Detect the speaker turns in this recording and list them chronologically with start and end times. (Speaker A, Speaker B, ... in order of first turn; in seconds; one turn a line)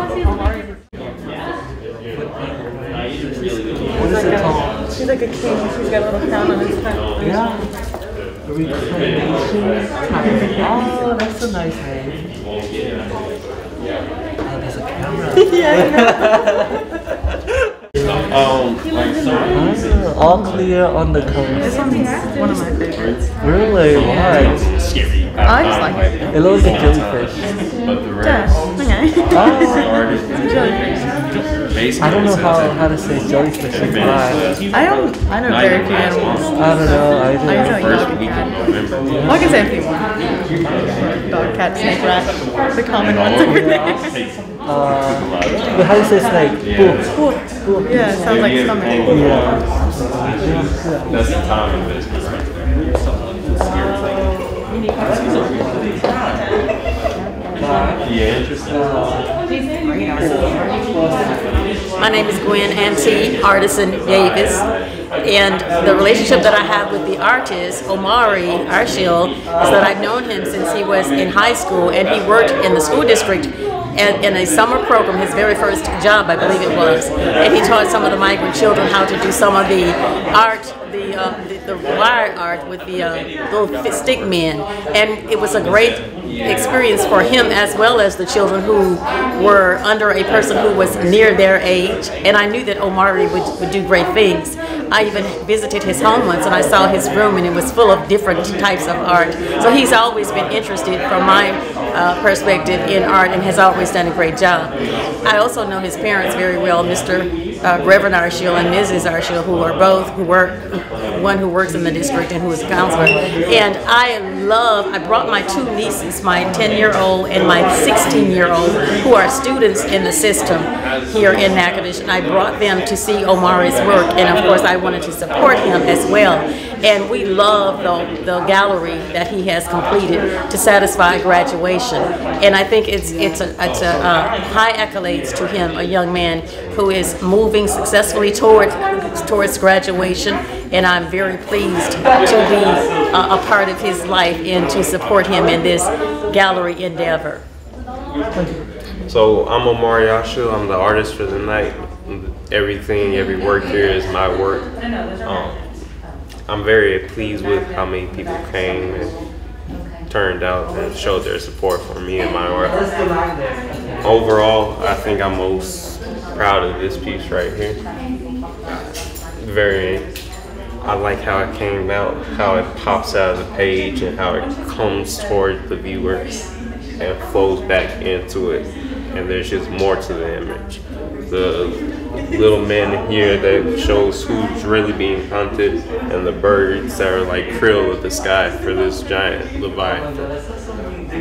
Speaker A: 2.1-4.8
Speaker B: 4.0-5.1
Speaker B: 5.8-7.3
Speaker A: 7.2-7.7
Speaker A: 8.4-12.3
Speaker A: 14.4-16.7
Speaker B: 15.6-16.0
Speaker C: 18.3-20.7
Speaker A: 19.5-22.0
Speaker B: 21.6-23.2
Speaker C: 22.9-23.2
Speaker A: 23.4-24.7
Speaker C: 23.8-28.8
Speaker B: 25.4-26.1
Speaker A: 26.3-27.5
Speaker A: 29.3-29.9
Speaker C: 29.4-30.8
Speaker C: 31.7-33.1
Speaker A: 32.0-34.6
Speaker C: 33.7-34.6
Speaker B: 34.7-38.4
Speaker C: 35.4-39.7
Speaker A: 36.5-38.0
Speaker A: 39.0-39.5
Speaker B: 39.2-40.0
Speaker B: 41.2-44.0
Speaker A: 44.6-51.4
Speaker C: 46.6-47.2
Speaker B: 47.8-49.1
Speaker C: 48.2-52.6
Speaker A: 55.0-55.8
Speaker A: 57.6-59.2
Speaker C: 58.0-58.6
Speaker A: 60.0-61.6
Speaker D: 62.0-64.7
Speaker D: 65.2-147.4
Speaker C: 86.2-86.8
Speaker C: 149.1-154.7
Speaker C: 155.2-155.7
Speaker C: 156.5-159.1
Speaker C: 160.1-162.8
Speaker C: 164.0-167.8
Speaker C: 169.4-170.1
Speaker C: 170.8-176.3
Speaker C: 177.0-190.3